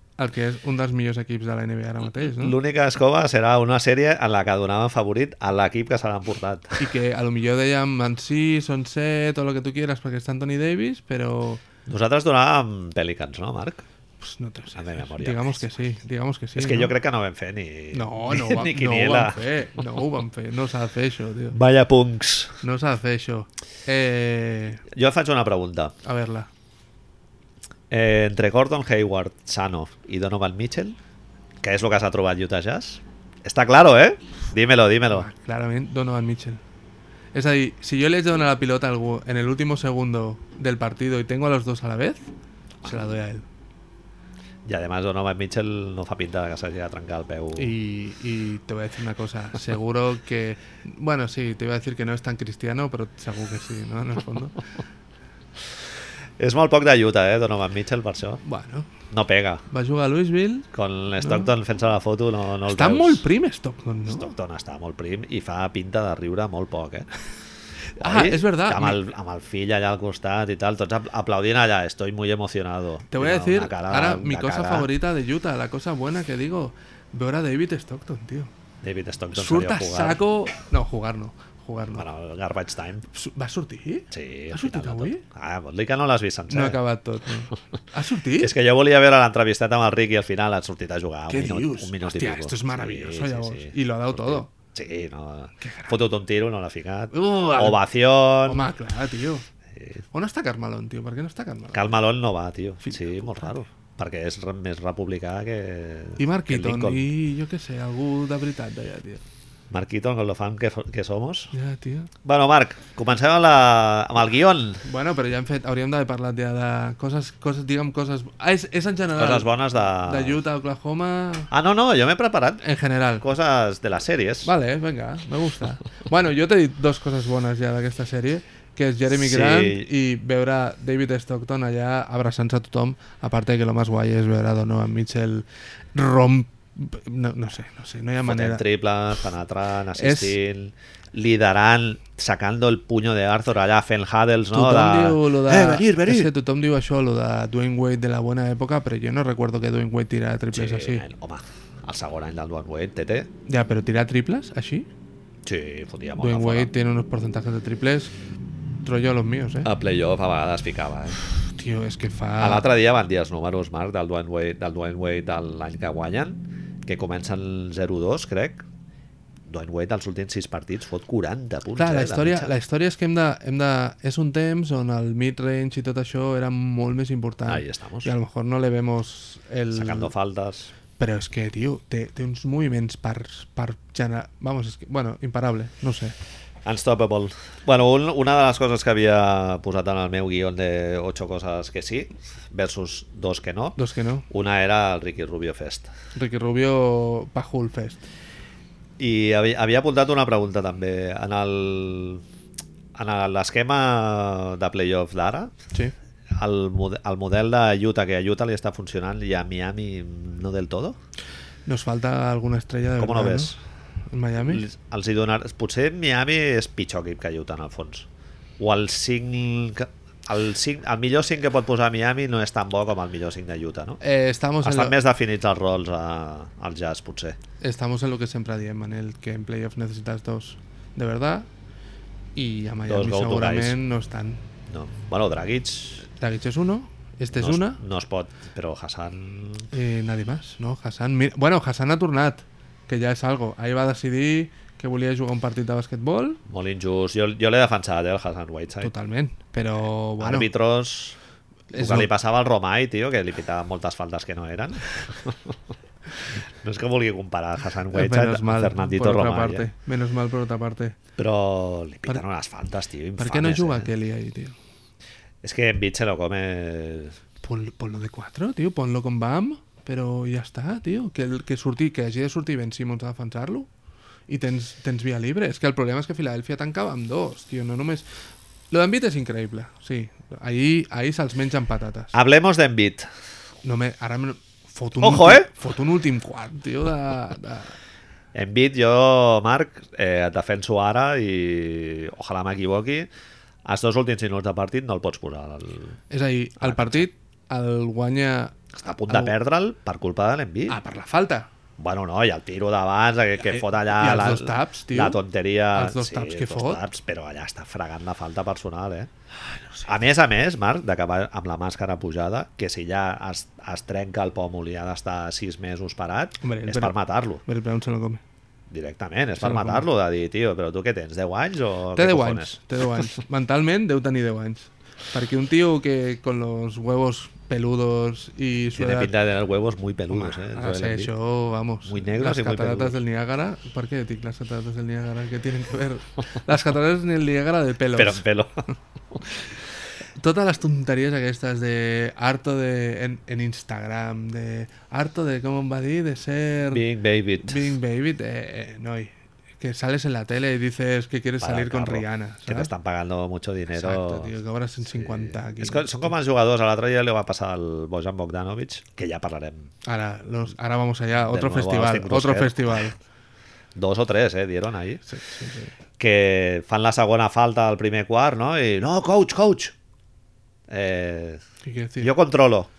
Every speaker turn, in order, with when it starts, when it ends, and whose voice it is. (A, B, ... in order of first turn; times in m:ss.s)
0:00.2-0:02.6 A
0:02.1-0:06.9 B
0:06.8-0:11.6 A
0:11.9-0:13.9 B
0:14.2-0:17.0 A
0:14.8-0:15.6 B
0:16.6-0:19.4 B
0:17.9-0:21.6 A
0:21.5-0:22.6 B
0:22.6-0:24.8 A
0:24.9-0:26.0 B
0:26.0-0:26.5 A
0:27.9-0:31.0 B
0:31.6-0:35.3 B
0:35.1-0:36.6 A
0:37.3-0:42.3 A
0:42.8-0:43.5 A
0:44.6-0:47.7 B
0:47.6-0:54.6 A
0:56.4-0:58.4 B
0:58.4-0:58.9 A
0:59.1-0:59.6 B
0:59.7-1:00.7 A
1:00.7-1:03.2 B
1:01.2-1:01.5 A
1:02.7-1:04.3 A
1:04.1-1:07.1 B
1:07.9-1:09.0 A
1:08.0-1:14.9 B
1:13.1-1:18.5 A
1:18.8-1:20.2 B
1:19.3-1:22.1 A
1:22.0-1:23.0 B
1:23.1-1:25.2 A
1:24.1-1:26.8 B
1:26.5-1:28.5 A
1:28.4-1:38.7 B
1:31.3-1:34.5 A
1:35.6-1:36.0 A
1:37.1-1:37.8 A
1:38.4-1:39.5 A
1:39.7-1:40.0 B
1:40.1-1:41.9 A
1:41.7-1:47.1 B
1:42.8-1:43.6 A
1:46.2-1:49.2 A
1:49.7-1:51.5 B
1:51.5-1:52.1 A
1:52.2-1:54.8 B
1:54.8-2:01.5 A
1:59.2-2:00.4 B
2:01.5-2:02.6 B
2:02.6-2:03.2 A
2:03.2-2:04.5 B
2:04.4-2:18.6 A
2:09.1-2:09.9 B
2:18.2-2:26.3 B
2:20.0-2:20.4 A
2:24.5-2:31.0 A
2:30.5-2:33.3 B
2:33.5-2:34.9 A
2:35.4-2:36.7 B
2:36.2-2:38.1 A
2:38.8-2:39.7 A
2:39.6-2:41.2 B
2:41.6-2:42.7 A
2:42.4-2:48.7 B
2:49.5-2:52.5 B
2:51.8-3:00.1 A
2:57.5-2:58.1 B
2:59.7-3:00.7 B
3:01.0-3:06.2 A
3:06.6-3:13.8 B
3:13.8-3:14.3 A
3:14.3-3:15.9 B
3:16.2-3:18.0 A
3:19.0-3:22.2 B
3:23.0-3:25.5 B
3:26.3-3:31.0 B
3:31.7-3:33.5 A
3:33.0-3:33.6 B
3:34.1-3:34.6 A
3:34.4-3:38.1 B
3:38.6-3:44.0 B
3:44.0-3:45.0 A
3:44.6-3:47.4 B
3:47.6-3:51.5 A
3:52.4-3:54.4 A
3:52.9-3:53.8 B
3:54.7-3:56.1 B
3:56.2-3:57.8 A
3:57.4-3:59.7 B
3:59.7-4:06.4 A
4:06.5-4:08.9 B
4:08.8-4:10.5 A
4:10.2-4:11.2 B
4:11.7-4:12.1 A
4:11.7-4:15.6 B
4:16.6-4:19.7 B
4:17.9-4:21.0 A
4:21.2-4:23.9 B
4:23.2-4:24.6 A
4:25.4-4:27.2 B
4:27.4-4:33.7 A
4:34.3-4:38.1 A
4:38.7-4:42.1 A
4:42.1-4:43.1 B
4:43.6-4:47.8 A
4:45.0-4:45.5 B
4:48.3-4:53.1 B
4:53.6-4:56.0 B
4:56.1-4:58.6 A
4:56.6-4:57.0 B
4:58.7-5:00.8 B
4:59.1-4:59.3 A
5:00.7-5:01.5 A
5:01.8-5:09.1 B
5:03.4-5:06.8 A
5:09.5-5:09.9 A
5:09.9-5:17.4 B
5:16.4-5:18.2 A
5:18.7-5:22.6 B
5:19.4-5:19.9 A
5:22.0-5:29.1 A
5:28.8-5:31.1 B
5:30.1-5:38.2 A
5:31.8-5:33.0 B
5:38.0-5:38.7 B
5:40.2-5:46.8 A
5:46.7-5:47.7 B
5:47.4-5:52.7 A
5:51.4-5:54.3 B
5:53.7-5:56.1 A
5:54.9-5:59.7 B
5:59.8-6:03.0 A
6:01.2-6:02.9 B
6:03.8-6:05.0 B
6:05.1-6:05.7 A
6:06.0-6:09.8 B
6:10.7-6:11.4 B
6:11.6-6:12.1 A
6:12.0-6:12.7 B